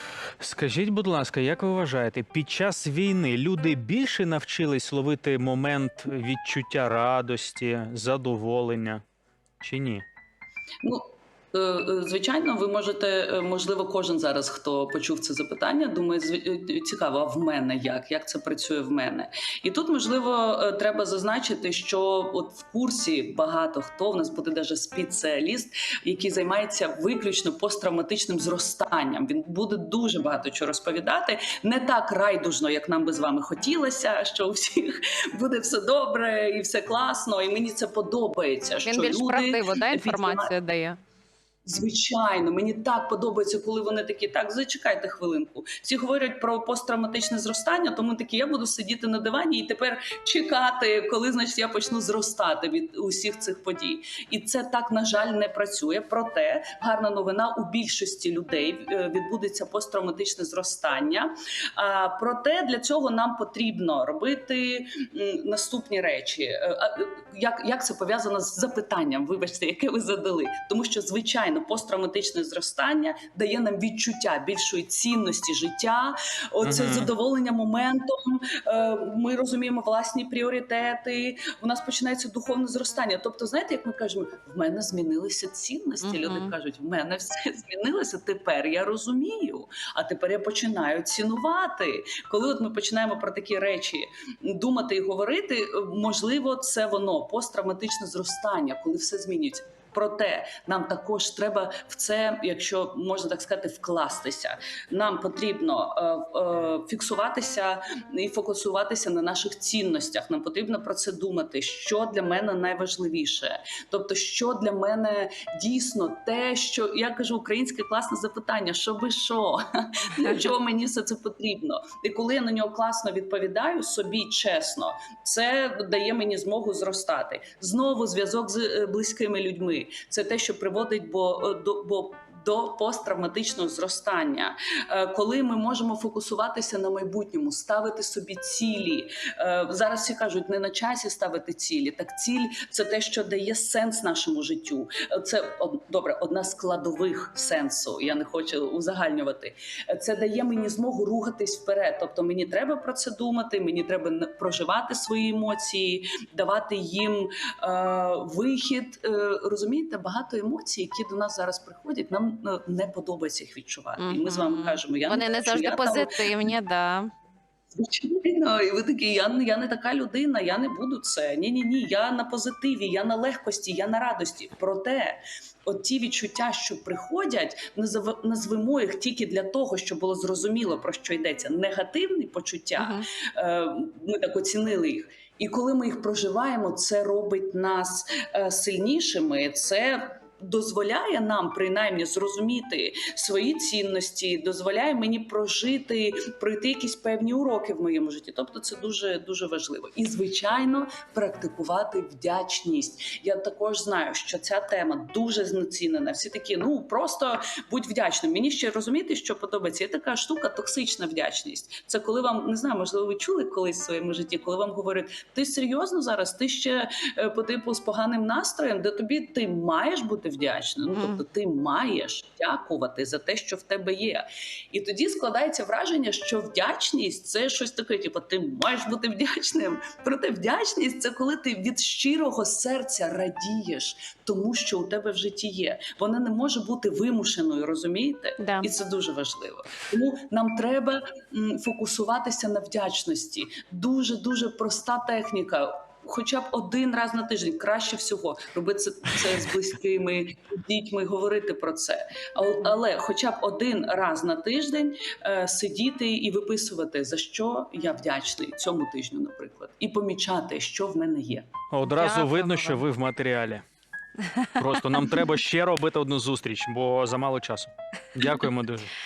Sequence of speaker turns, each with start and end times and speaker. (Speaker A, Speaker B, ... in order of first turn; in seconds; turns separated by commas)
Speaker A: 0.4-9.0, Speaker A: 9.6-10.0, Speaker B: 10.8-40.5, Speaker C: 38.8-41.0, Speaker B: 41.6-166.5, Speaker A: 76.6-77.1, Speaker C: 86.0-86.5, Speaker C: 164.0-167.1, Speaker B: 167.7-261.5, Speaker C: 182.8-183.1, Speaker C: 220.9-221.2, Speaker C: 238.4-238.7, Speaker A: 261.7-263.6, Speaker C: 261.9-262.8, Speaker A: 264.6-268.9